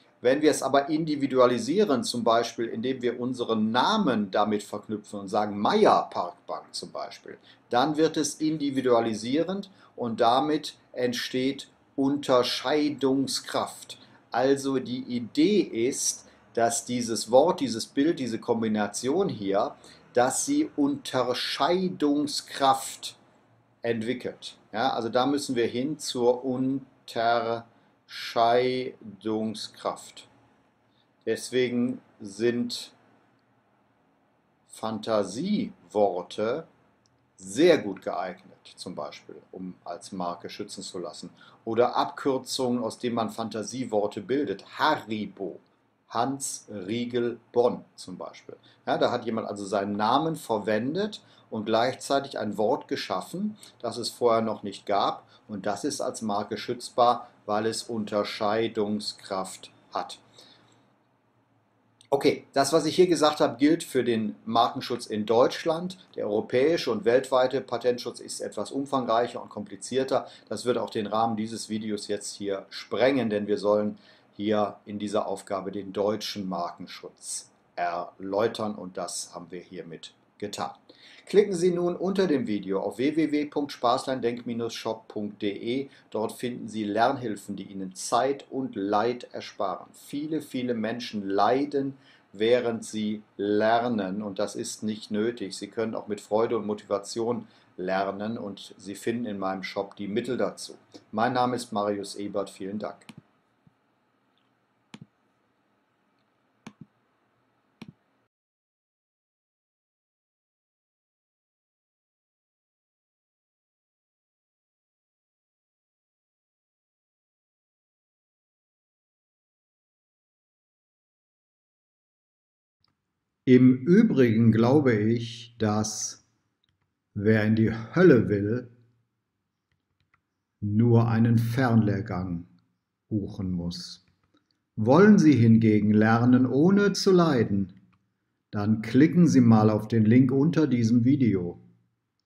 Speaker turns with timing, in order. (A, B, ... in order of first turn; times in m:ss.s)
0:00.2-0:23.2 A
0:23.8-0:30.3 A
0:31.2-0:32.9 A
0:34.7-0:36.7 A
0:37.4-1:00.2 A
1:02.1-1:43.1 A
2:03.5-2:06.2 A
2:07.2-2:08.7 A
2:10.6-2:12.5 A
2:13.1-2:14.0 A
2:14.8-2:17.7 A
2:18.5-2:21.6 A